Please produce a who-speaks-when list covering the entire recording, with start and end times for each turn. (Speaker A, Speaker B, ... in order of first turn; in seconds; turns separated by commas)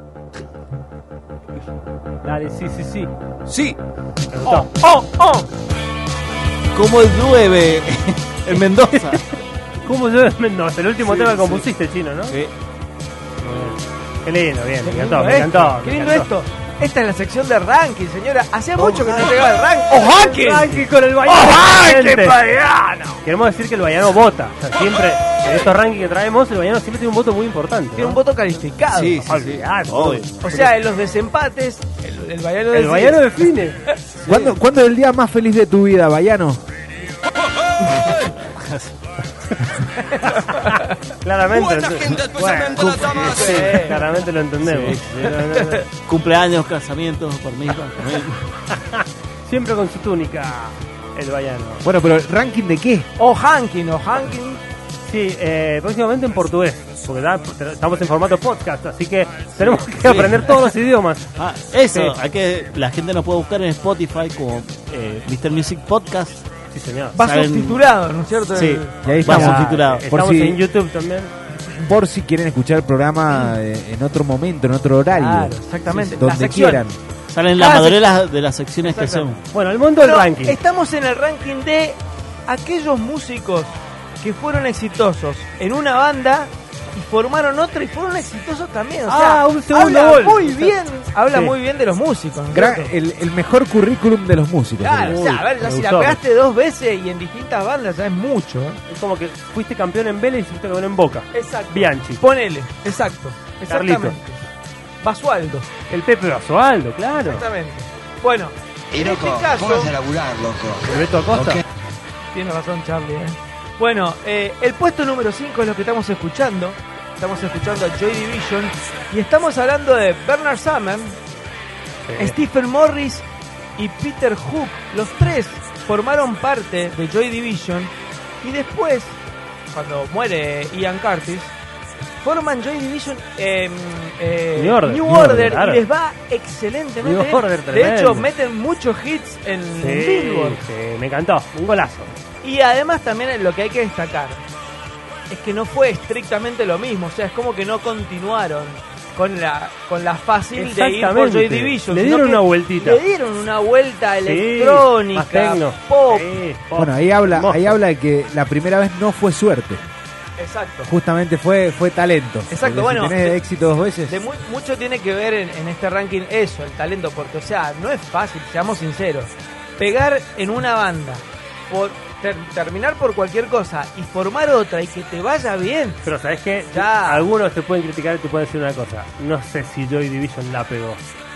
Speaker A: 2.2-3.1, Speaker B: 3.5-3.8, Speaker A: 4.3-4.7, Speaker C: 4.5-5.4, Speaker B: 6.7-9.2, Speaker A: 8.5-12.4, Speaker B: 11.0-11.7, Speaker A: 13.4-16.3, Speaker C: 14.8-23.2, Speaker A: 18.9-19.4, Speaker A: 19.9-28.2, Speaker C: 27.9-29.2, Speaker B: 28.9-30.3, Speaker A: 29.2-30.7, Speaker C: 30.4-33.2, Speaker A: 32.7-33.8, Speaker D: 34.2-36.6, Speaker B: 37.9-39.0, Speaker C: 40.2-40.8, Speaker A: 40.3-45.9, Speaker B: 42.8-43.8, Speaker C: 43.1-44.1, Speaker B: 44.6-45.4, Speaker B: 46.0-48.6, Speaker A: 48.7-51.9, Speaker D: 51.8-53.1, Speaker C: 53.2-54.6, Speaker A: 55.0-61.3, Speaker B: 59.7-60.5, Speaker B: 61.4-66.4, Speaker A: 61.9-62.2, Speaker A: 66.7-67.2, Speaker C: 67.2-69.1, Speaker B: 67.2-67.8, Speaker B: 68.5-70.1, Speaker D: 69.0-70.6, Speaker A: 69.2-71.3, Speaker D: 71.7-77.0, Speaker C: 75.1-76.9, Speaker B: 77.3-79.4, Speaker C: 77.6-78.1, Speaker C: 78.8-79.4, Speaker A: 79.5-80.6, Speaker C: 80.0-92.9, Speaker A: 89.1-90.8, Speaker A: 91.3-91.6, Speaker D: 92.5-95.2, Speaker C: 94.8-98.8, Speaker A: 95.0-96.2, Speaker A: 98.9-102.2, Speaker C: 101.3-104.5, Speaker A: 103.7-104.2, Speaker C: 105.0-105.8, Speaker A: 105.9-107.5, Speaker C: 107.2-110.0, Speaker E: 109.0-110.8, Speaker A: 110.8-111.6, Speaker E: 111.3-111.6, Speaker C: 112.3-121.2, Speaker A: 122.1-122.4, Speaker C: 122.2-123.2, Speaker C: 123.8-129.2, Speaker C: 129.7-131.5, Speaker C: 132.2-140.6, Speaker A: 134.6-135.9, Speaker A: 137.0-138.3, Speaker A: 139.8-142.2, Speaker C: 142.4-144.4, Speaker C: 145.3-156.3, Speaker A: 150.6-153.0, Speaker A: 154.2-157.8, Speaker D: 156.8-159.8, Speaker C: 160.4-160.9, Speaker D: 160.9-164.2, Speaker C: 162.5-163.4, Speaker C: 164.1-176.0, Speaker A: 176.0-181.0, Speaker C: 176.7-177.3